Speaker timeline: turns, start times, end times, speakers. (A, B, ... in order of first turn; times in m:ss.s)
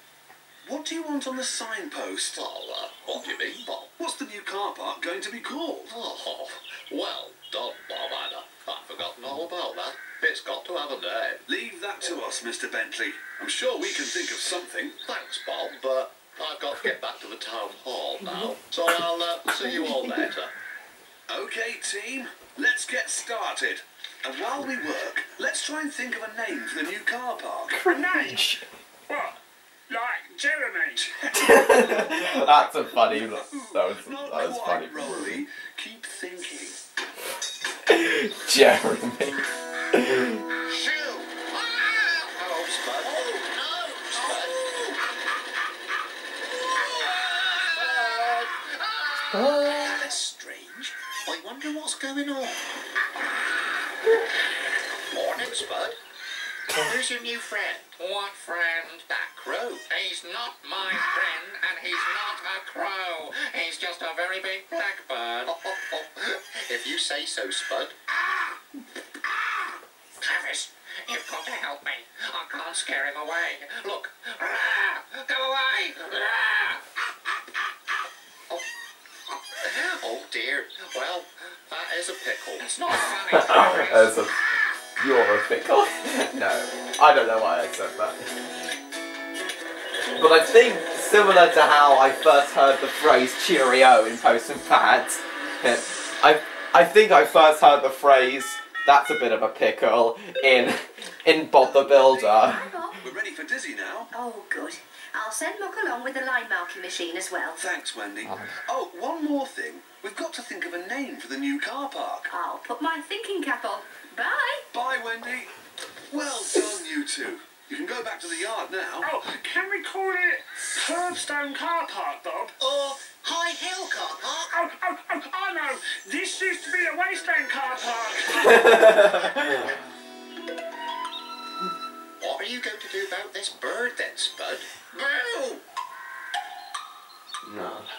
0:00.6-0:02.4 A
0:02.3-0:03.9 B
0:03.2-0:05.9 A
0:05.9-0:11.4 B
0:11.5-0:15.0 A
0:15.0-0:20.5 B
0:21.3-0:27.9 A
0:27.8-0:28.5 C
0:27.9-0:28.6 D
0:29.1-0:31.1 C
0:31.0-0:36.8 A
0:31.3-0:35.4 D
0:37.9-0:39.4 D
0:39.9-0:40.4 D
0:40.6-0:42.5 E
0:42.4-0:43.4 B
0:43.0-0:44.7 E
0:44.1-0:44.6 B
0:46.8-0:50.0 E
0:47.8-0:48.4 B
0:49.4-0:49.7 D
0:49.5-0:52.6 B
0:55.1-0:56.0 B
0:56.7-0:57.9 B
0:58.0-0:59.2 E
0:59.1-0:59.8 B
0:59.9-1:05.6 E
1:05.5-1:08.0 B
1:10.2-1:16.8 E
1:19.7-1:22.7 B
1:22.6-1:24.3 E
1:23.3-1:24.3 D
1:25.0-1:28.2 D
1:30.2-1:42.7 D
1:41.6-1:44.1 A
1:42.3-1:43.0 F
1:44.1-1:47.6 F
1:47.6-1:52.3 A
1:48.2-1:48.6 D
1:52.3-1:54.7 F
1:54.7-1:55.5 A
1:56.1-1:59.1 A
1:59.0-2:02.6 C
2:02.6-2:04.5 B
2:04.5-2:09.3 C
2:08.4-2:09.7 D
2:12.2-2:14.7 B
2:14.9-2:15.6 E
2:17.4-2:17.9 D